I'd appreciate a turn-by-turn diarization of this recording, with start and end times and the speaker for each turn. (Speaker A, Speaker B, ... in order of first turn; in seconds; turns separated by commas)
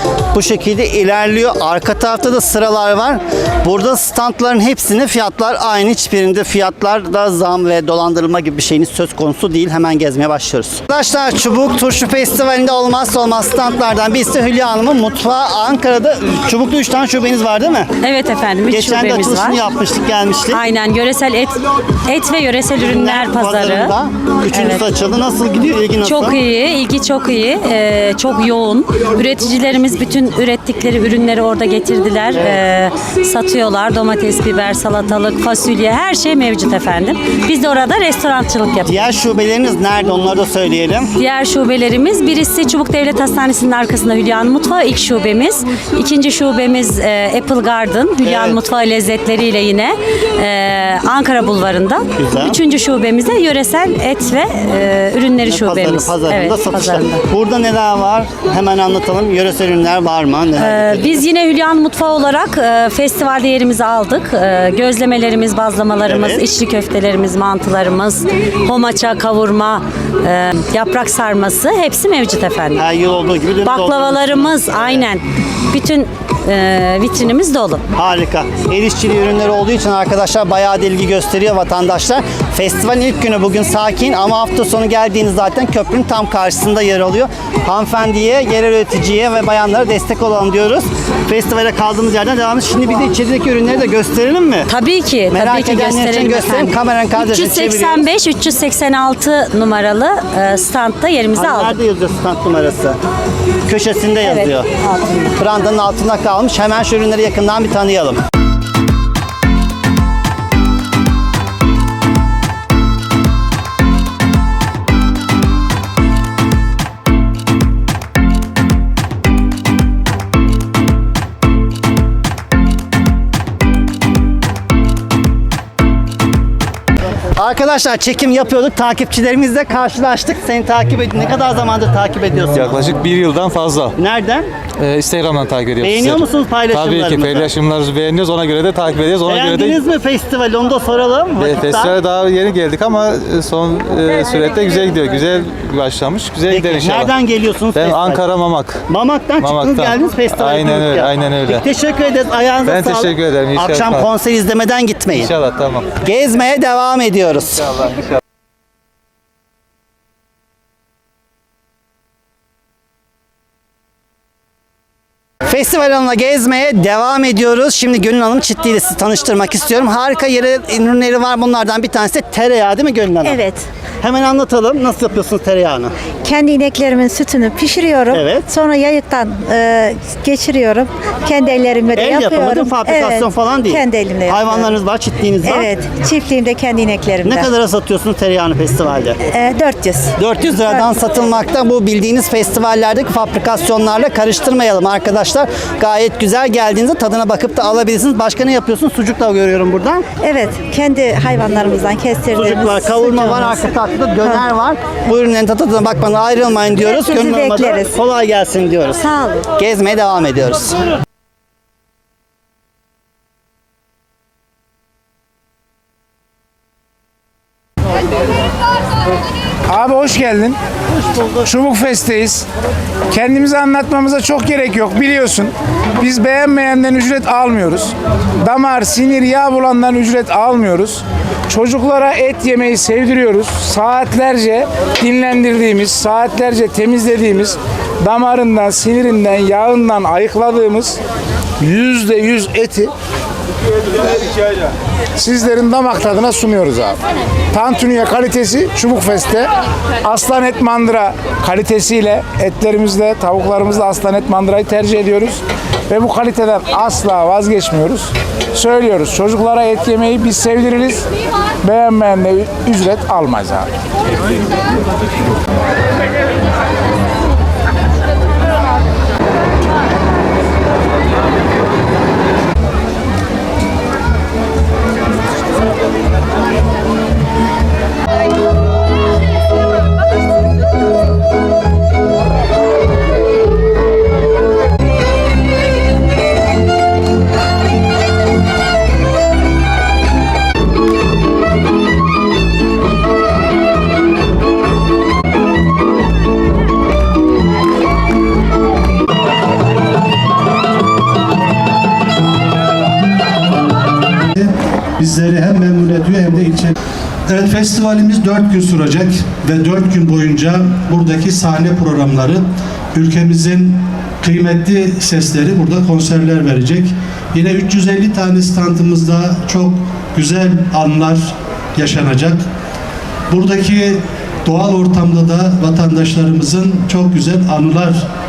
Speaker A: 0.3-17.9, Speaker B: 18.0-19.6, Speaker A: 18.7-20.6, Speaker B: 20.5-23.9, Speaker A: 22.8-26.4, Speaker B: 24.5-24.9, Speaker B: 26.0-39.0, Speaker A: 32.4-32.6, Speaker A: 38.9-41.1, Speaker B: 41.2-57.2, Speaker A: 48.2-48.6, Speaker A: 52.2-52.6, Speaker A: 55.5-61.2, Speaker B: 60.6-72.8, Speaker A: 66.1-66.5, Speaker A: 72.8-75.1, Speaker B: 73.7-77.8, Speaker A: 78.0-94.7, Speaker B: 94.7-101.8, Speaker A: 95.3-98.1, Speaker A: 101.3-103.0, Speaker A: 103.7-104.7, Speaker B: 104.2-105.3, Speaker A: 105.4-108.2, Speaker A: 127.4-132.9, Speaker C: 132.5-133.9, Speaker A: 134.0-134.4, Speaker C: 134.8-139.8, Speaker A: 135.8-137.5, Speaker A: 139.3-142.0, Speaker C: 141.4-147.1, Speaker A: 146.5-148.3, Speaker C: 147.7-148.8, Speaker A: 148.9-155.3, Speaker C: 149.4-151.6, Speaker C: 152.7-154.1, Speaker C: 155.2-155.9, Speaker A: 156.0-157.7, Speaker A: 165.5-173.4, Speaker D: 173.2-173.6, Speaker A: 174.0-175.9, Speaker D: 176.2-184.8, Speaker A: 178.1-178.5, Speaker A: 181.9-185.8, Speaker D: 185.4-187.5, Speaker A: 187.2-189.2, Speaker D: 189.3-190.1, Speaker A: 190.2-200.0, Speaker D: 200.2-203.7, Speaker A: 202.3-210.8, Speaker D: 206.8-207.9, Speaker E: 219.7-220.6, Speaker E: 221.4-222.4, Speaker E: 223.1-227.9, Speaker E: 228.5-231.0, Speaker E: 231.5-241.0, Speaker E: 241.6-242.9, Speaker E: 245.2-247.0, Speaker E: 247.5-249.5, Speaker E: 250.1-261.0, Speaker E: 261.6-263.7, Speaker F: 304.3-306.8, Speaker F: 307.3-322.4, Speaker F: 323.3-328.1